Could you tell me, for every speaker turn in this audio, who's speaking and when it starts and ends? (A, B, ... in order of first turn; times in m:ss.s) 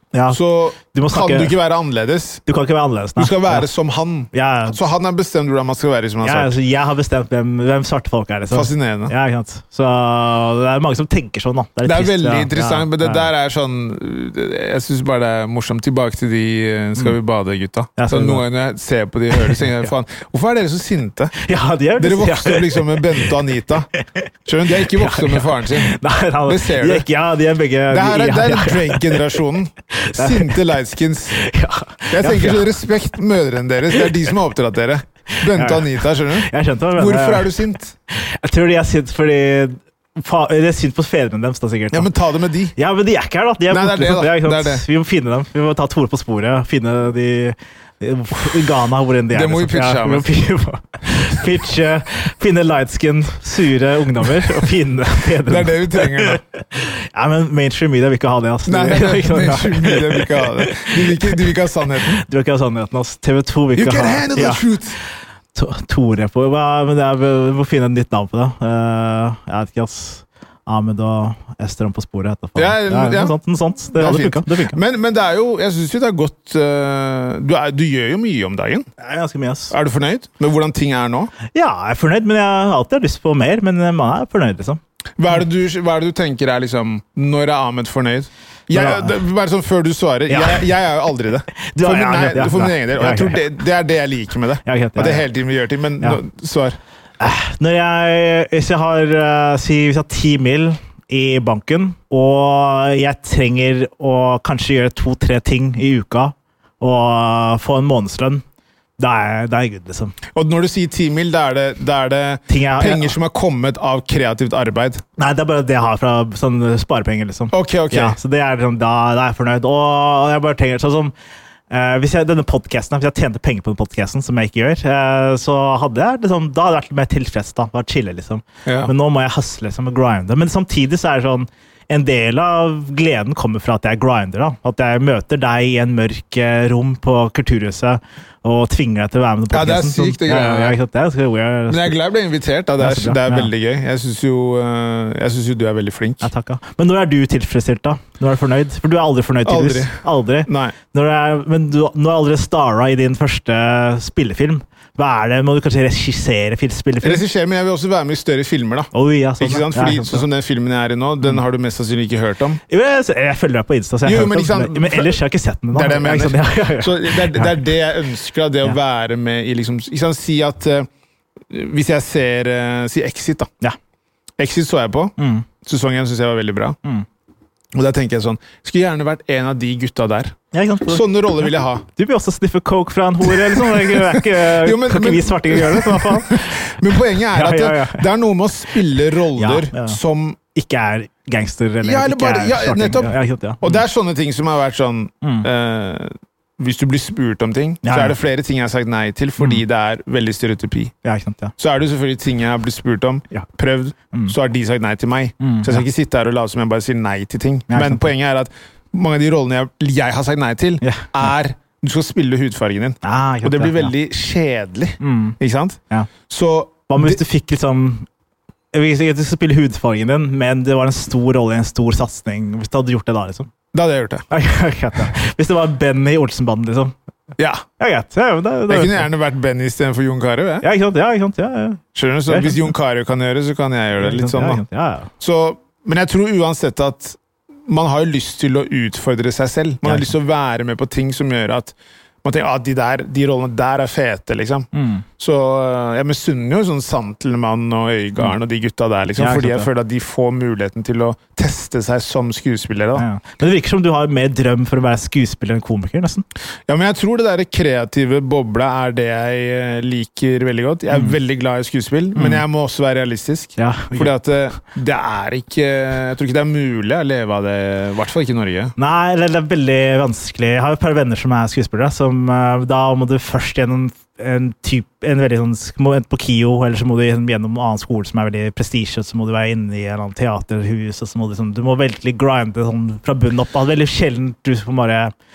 0:00.1-0:01.6 A
0:00.3-0:02.4 B
0:02.4-0:03.7 A
0:03.2-0:06.6 B
0:04.3-0:04.8 A
0:06.2-0:13.3 A
0:08.5-0:09.1 B
0:11.8-0:21.3 B
0:18.0-0:18.4 A
0:19.3-0:19.7 A
0:21.4-0:23.3 A
0:22.0-0:23.9 B
0:24.0-0:24.3 A
0:24.4-0:27.0 B
0:24.8-0:29.4 A
0:27.9-0:31.4 B
0:30.0-0:30.6 A
0:31.4-0:32.7 A
0:32.1-0:37.9 B
0:35.4-0:37.5 A
0:38.1-0:42.1 A
0:41.9-0:42.7 B
0:42.8-1:01.4 A
0:43.7-0:44.8 B
0:49.3-0:50.3 B
0:55.4-0:56.4 B
0:58.7-1:02.2 B
1:02.2-1:04.6 A
1:03.8-1:05.0 B
1:05.5-1:14.8 A
1:12.6-1:13.4 B
1:13.9-1:18.8 B
1:19.0-1:19.7 A
1:19.7-1:21.3 B
1:21.5-1:24.8 A
1:25.2-1:36.8 B
1:28.7-1:29.2 A
1:30.3-1:30.6 A
1:31.5-1:33.4 A
1:34.6-1:35.3 A
1:37.2-1:48.4 A
1:49.0-1:50.2 A
1:50.3-1:55.0 B
1:52.5-1:53.2 A
1:55.2-2:01.1 A
1:57.5-1:58.2 B
2:01.7-2:22.0 A
2:08.6-2:08.9 B
2:19.5-2:20.8 B
2:21.7-2:26.2 B
2:22.8-2:23.5 A
2:26.2-2:37.2 A
2:29.4-2:30.7 B
2:37.0-2:42.6 B
2:38.9-2:40.2 A
2:42.7-2:47.6 A
2:44.0-2:45.2 B
2:45.7-2:50.9 B
2:51.5-2:53.5 B
2:54.4-2:56.8 B
2:55.2-2:55.4 A
2:57.7-3:01.8 B
3:00.5-3:01.1 A
3:01.9-3:06.6 A
3:03.2-3:10.4 B
3:07.2-3:08.1 A
3:09.4-3:10.0 A
3:10.5-3:13.8 A
3:11.8-3:20.9 B
3:15.2-3:15.5 A
3:17.8-3:18.2 A
3:21.0-3:21.5 A
3:21.6-3:37.2 B
3:25.4-3:25.8 A
3:27.7-3:28.1 A
3:30.8-3:31.1 A
3:33.0-3:33.9 A
3:35.0-3:35.4 A
3:36.9-3:38.0 A
3:38.7-3:43.5 A
3:43.7-3:44.2 B
3:44.3-3:46.9 A
3:47.4-3:47.6 B
3:47.8-3:49.1 A
3:48.7-3:50.7 B
3:50.6-3:52.7 A
3:51.9-3:54.6 B
3:54.0-3:55.1 A
3:55.2-4:04.7 B
3:59.8-4:00.1 A
4:04.7-4:05.0 A
4:05.2-4:13.0 B
4:09.2-4:09.7 A
4:13.0-4:16.2 A
4:16.7-4:28.7 B
4:20.9-4:21.2 A
4:22.1-4:22.4 A
4:23.6-4:24.1 A
4:28.8-4:45.1 A